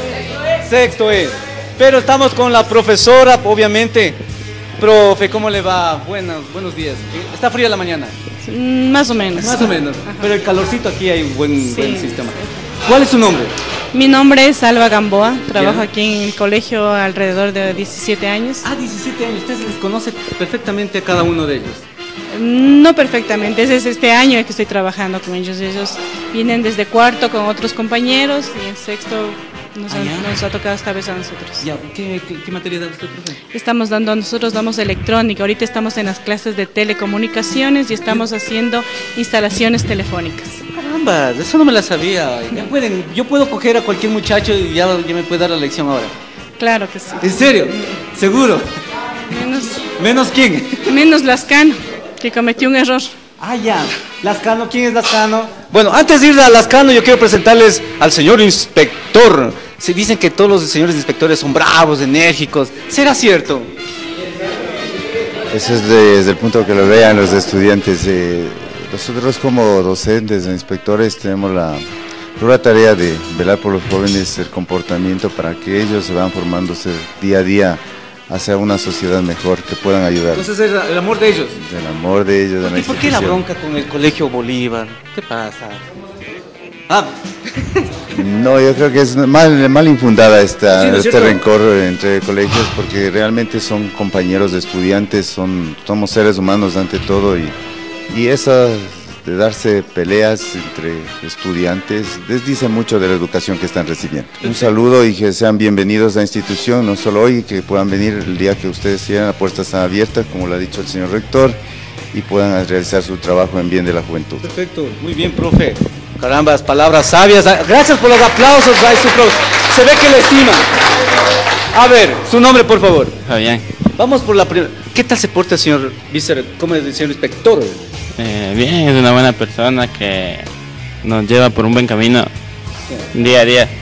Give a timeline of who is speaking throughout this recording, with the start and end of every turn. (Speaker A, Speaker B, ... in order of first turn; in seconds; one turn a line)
Speaker A: 0.6-4.2
Speaker A: 4.8-8.1
Speaker B: 8.4-10.3
Speaker A: 9.3-13.5
Speaker B: 11.6-12.7
Speaker B: 13.9-18.6
Speaker A: 15.5-15.8
Speaker A: 18.6-21.8
Speaker B: 22.3-31.6
Speaker A: 29.9-30.3
Speaker A: 31.6-33.4
Speaker B: 33.5-40.6
Speaker A: 40.7-46.1
Speaker B: 46.6-47.3
Speaker A: 47.2-48.7
Speaker B: 49.3-49.8
Speaker A: 49.9-50.8
Speaker B: 50.9-53.1
Speaker A: 53.4-63.7
Speaker C: 65.5-71.8
Speaker C: 72.4-80.5
Speaker A: 80.3-81.6
Speaker C: 81.5-83.4
Speaker A: 82.6-85.8
Speaker A: 86.9-87.8
Speaker C: 88.1-97.5
Speaker A: 90.7-91.4
Speaker C: 98.1-111.6
Speaker A: 104.4-104.8
Speaker C: 112.1-114.5
Speaker A: 114.4-120.7
Speaker A: 121.7-123.2
Speaker D: 123.3-123.6
Speaker A: 124.0-127.8
Speaker D: 128.2-130.5
Speaker D: 131.0-132.3
Speaker D: 133.1-133.7